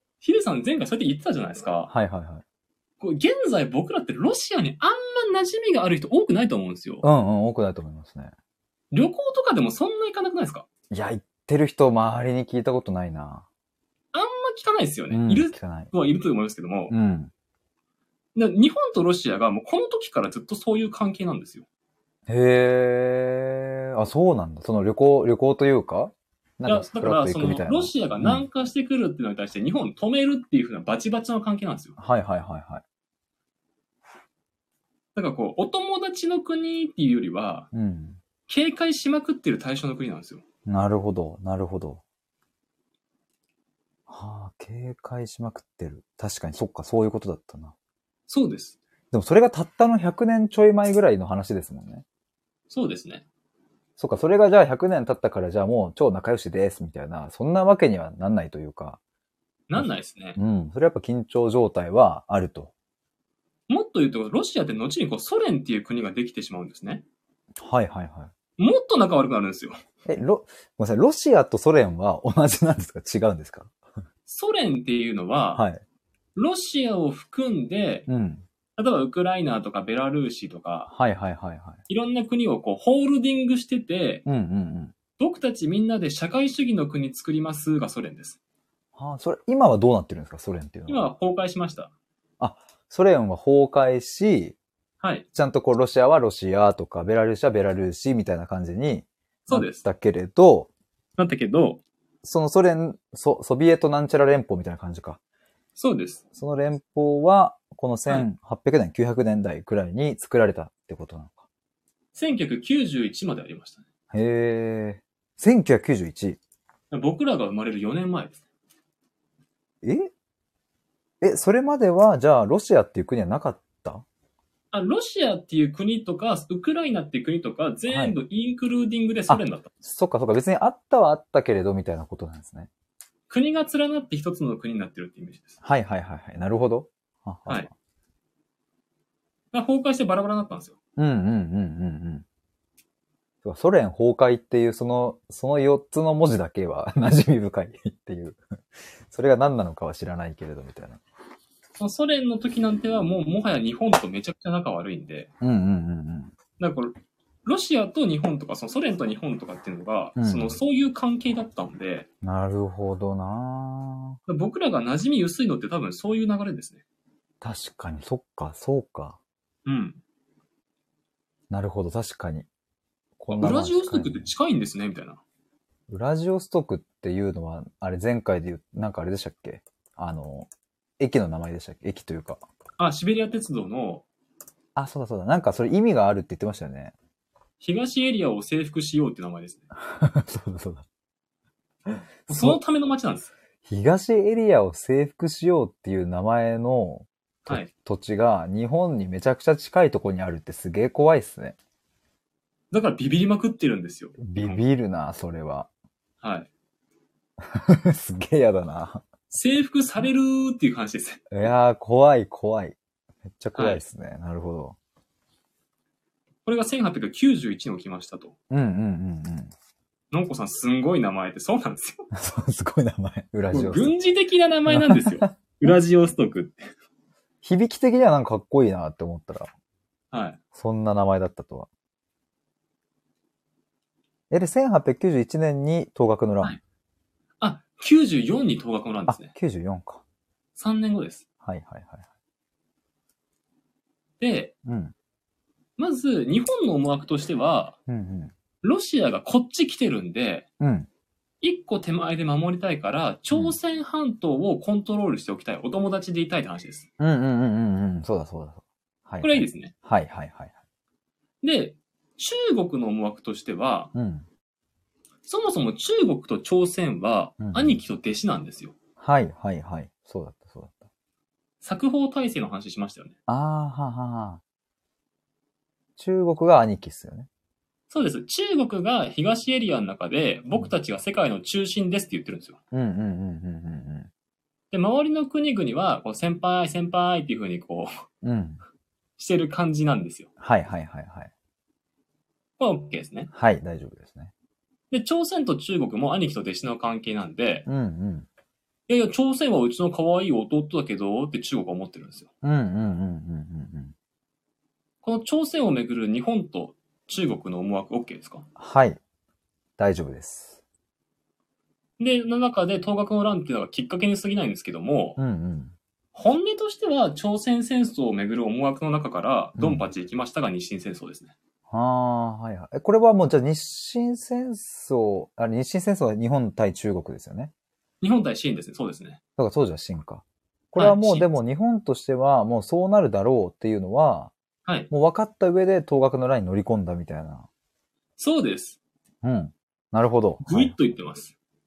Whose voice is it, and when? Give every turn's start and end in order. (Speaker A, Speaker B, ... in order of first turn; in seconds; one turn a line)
Speaker A: 0.2-1.9
Speaker B: 1.9-2.4
Speaker A: 3.0-7.0
Speaker B: 7.0-8.3
Speaker A: 8.9-10.7
Speaker B: 10.9-13.4
Speaker A: 14.1-16.9
Speaker B: 15.1-15.9
Speaker B: 16.9-17.3
Speaker A: 18.3-21.6
Speaker B: 22.3-28.4
Speaker A: 26.6-31.9
Speaker B: 32.0-32.8
Speaker A: 35.1-37.7
Speaker B: 37.7-38.2
Speaker A: 38.5-40.4
Speaker B: 40.7-42.0
Speaker B: 44.1-47.7
Speaker A: 48.3-48.8
Speaker B: 49.1-52.0
Speaker A: 52.7-53.2
Speaker B: 54.0-59.0
Speaker A: 59.7-60.4
Speaker B: 59.8-62.7
Speaker A: 63.7-67.0
Speaker B: 67.6-68.3
Speaker A: 68.6-69.8
Speaker B: 70.0-73.7
Speaker A: 74.3-75.6
Speaker B: 75.5-75.8
Speaker A: 76.3-78.1
Speaker B: 78.1-78.4
Speaker A: 78.8-80.9
Speaker B: 80.9-81.8
Speaker A: 81.9-84.2
Speaker B: 84.2-84.9
Speaker A: 85.2-88.4
Speaker B: 89.0-91.1
Speaker A: 90.9-91.9
Speaker B: 92.4-94.6
Speaker A: 95.0-95.2
Speaker B: 95.3-100.7
Speaker A: 99.5-99.8
Speaker A: 101.2-101.8
Speaker B: 102.2-105.2
Speaker A: 105.8-106.2
Speaker B: 106.3-111.4
Speaker A: 112.1-113.8
Speaker B: 114.1-116.4
Speaker A: 116.9-118.4
Speaker B: 119.8-120.1
Speaker B: 121.2-124.0
Speaker A: 124.7-129.7
Speaker B: 127.9-128.2
Speaker B: 129.3-132.7
Speaker A: 133.3-135.6
Speaker B: 135.6-137.7
Speaker A: 139.5-140.7
Speaker B: 141.0-142.2
Speaker B: 143.4-148.4
Speaker B: 149.1-151.0
Speaker A: 151.8-155.3
Speaker B: 155.4-156.3
Speaker A: 156.6-156.9
Speaker A: 157.4-162.1
Speaker B: 160.2-160.6
Speaker B: 162.2-164.2
Speaker A: 164.3-166.8
Speaker B: 167.4-169.2
Speaker A: 169.6-170.0
Speaker B: 171.5-172.5
Speaker B: 173.2-174.3
Speaker A: 173.3-175.2
Speaker B: 175.9-180.5
Speaker B: 181.0-182.4
Speaker A: 182.8-184.0
Speaker B: 184.8-186.9
Speaker A: 187.6-189.6
Speaker B: 189.7-190.8
Speaker B: 191.8-192.6
Speaker A: 192.3-193.3
Speaker B: 193.6-201.6
Speaker A: 202.7-204.6
Speaker B: 204.2-205.7
Speaker A: 206.2-206.5
Speaker B: 207.4-209.0
Speaker A: 209.3-211.3
Speaker B: 211.3-212.8
Speaker B: 213.4-214.8
Speaker A: 213.5-213.8
Speaker A: 216.4-218.3
Speaker B: 218.5-219.5
Speaker A: 220.1-222.1
Speaker B: 222.1-223.9
Speaker A: 223.5-226.7
Speaker B: 224.7-225.3
Speaker B: 227.4-229.5
Speaker A: 230.1-230.4
Speaker B: 230.5-231.7
Speaker B: 234.3-236.6
Speaker A: 237.4-239.3
Speaker B: 239.1-240.0
Speaker A: 240.6-241.2
Speaker B: 241.4-242.0
Speaker A: 244.2-244.5
Speaker B: 244.6-244.9
Speaker A: 245.8-247.8
Speaker B: 247.9-248.3
Speaker A: 248.6-250.4
Speaker B: 250.6-250.9
Speaker A: 251.4-256.9
Speaker B: 257.0-260.5
Speaker A: 259.2-259.7
Speaker A: 261.4-263.9
Speaker B: 263.9-264.2
Speaker A: 265.2-268.7
Speaker B: 267.4-267.8
Speaker B: 269.0-270.8
Speaker A: 271.6-273.1
Speaker B: 273.3-274.4
Speaker B: 276.0-277.3
Speaker A: 277.9-282.6
Speaker B: 282.7-284.1
Speaker A: 284.7-287.9
Speaker B: 288.2-288.6
Speaker A: 289.2-290.3
Speaker B: 290.4-291.3
Speaker A: 292.6-293.3
Speaker B: 293.3-294.3
Speaker A: 294.9-297.7
Speaker B: 297.7-298.3
Speaker A: 298.9-302.3
Speaker B: 302.4-303.9
Speaker A: 305.0-308.4
Speaker B: 308.6-309.0
Speaker B: 309.8-310.6
Speaker A: 312.0-315.2
Speaker B: 315.2-315.7
Speaker A: 316.1-321.3
Speaker B: 319.6-319.9
Speaker B: 321.7-327.5
Speaker A: 328.0-329.2
Speaker B: 329.4-334.3
Speaker A: 330.8-331.3
Speaker A: 334.6-334.9
Speaker B: 334.9-337.5
Speaker A: 338.2-338.8
Speaker B: 339.2-340.7
Speaker A: 340.4-341.3